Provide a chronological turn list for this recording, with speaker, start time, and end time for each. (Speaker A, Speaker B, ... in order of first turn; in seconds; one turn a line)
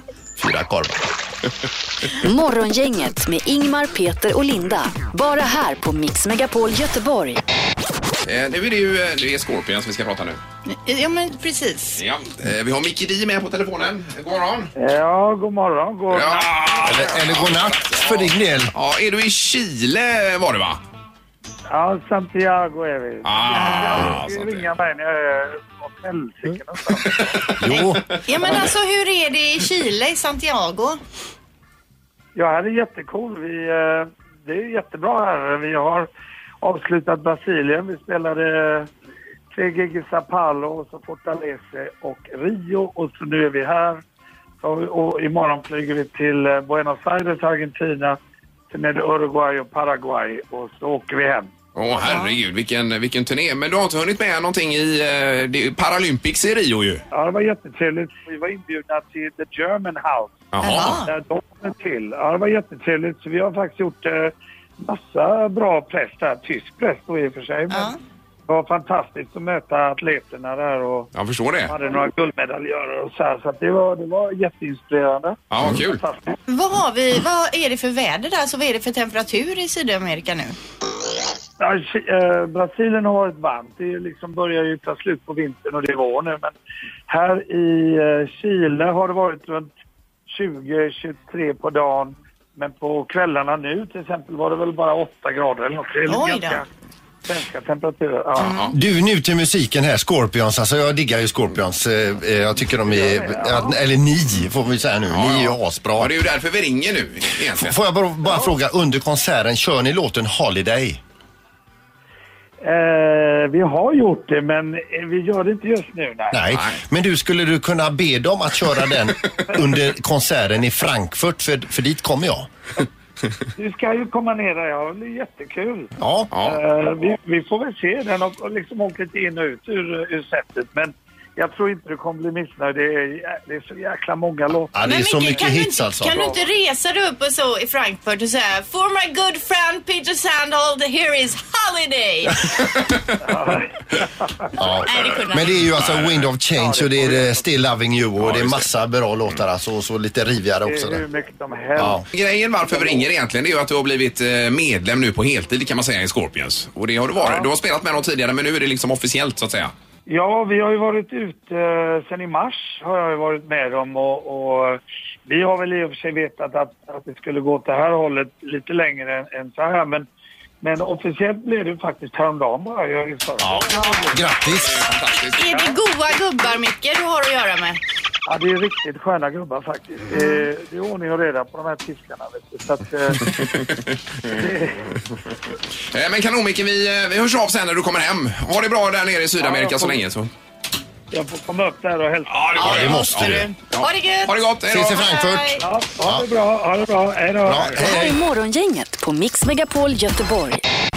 Speaker A: 0.4-1.0
Speaker B: 2.2-7.4
Speaker C: 8.2-10.4
Speaker D: 10.7-12.0
Speaker C: 12.0-14.7
Speaker E: 14.8-17.1
Speaker C: 16.1-20.8
Speaker A: 16.8-18.7
Speaker E: 21.7-27.4
Speaker C: 23.2-24.7
Speaker D: 23.5-24.1
Speaker C: 27.2-28.2
Speaker A: 27.6-28.0
Speaker D: 27.7-31.0
Speaker E: 32.3-36.1
Speaker E: 36.6-38.9
Speaker E: 39.5-44.0
Speaker E: 44.6-48.2
Speaker E: 48.7-51.5
Speaker C: 51.7-57.0
Speaker D: 52.0-52.4
Speaker E: 57.1-60.5
Speaker C: 60.5-61.0
Speaker D: 60.6-61.1
Speaker E: 61.0-67.9
Speaker D: 67.7-68.0
Speaker E: 68.5-71.1
Speaker C: 71.1-71.7
Speaker E: 71.7-76.3
Speaker C: 75.5-76.0
Speaker D: 76.5-80.5
Speaker E: 81.6-86.5
Speaker E: 87.1-89.7
Speaker E: 90.3-96.7
Speaker D: 96.1-96.6
Speaker E: 97.2-98.6
Speaker C: 98.4-98.7
Speaker D: 98.4-98.7
Speaker A: 98.7-106.1
Speaker E: 102.8-103.8
Speaker C: 105.1-107.8
Speaker A: 107.6-111.0
Speaker E: 112.6-116.4
Speaker A: 116.3-122.5
Speaker C: 116.5-116.8
Speaker E: 123.5-135.3
Speaker A: 126.0-126.3
Speaker C: 126.3-126.6
Speaker A: 134.7-136.3
Speaker D: 134.8-142.6
Speaker E: 136.1-136.4
Speaker E: 143.2-144.5
Speaker A: 144.6-151.0
Speaker D: 144.8-145.6
Speaker C: 145.7-146.3
Speaker E: 146.5-147.4
Speaker C: 148.2-148.7
Speaker E: 150.6-152.0
Speaker A: 151.8-152.0
Speaker C: 151.8-159.7
Speaker E: 152.7-153.1
Speaker E: 157.2-157.5
Speaker E: 160.1-170.1
Speaker E: 170.6-174.2
Speaker A: 173.4-174.8
Speaker D: 173.7-174.1
Speaker C: 174.4-175.7
Speaker D: 175.3-177.8
Speaker E: 178.3-183.4
Speaker D: 180.1-180.4
Speaker C: 183.2-184.3
Speaker E: 184.3-184.9
Speaker C: 185.9-190.3
Speaker E: 189.4-190.0
Speaker E: 191.1-193.0
Speaker C: 192.3-195.0
Speaker A: 192.6-193.5
Speaker D: 192.6-195.6
Speaker A: 194.7-196.3
Speaker E: 195.6-198.0
Speaker A: 197.4-198.2
Speaker B: 197.8-200.6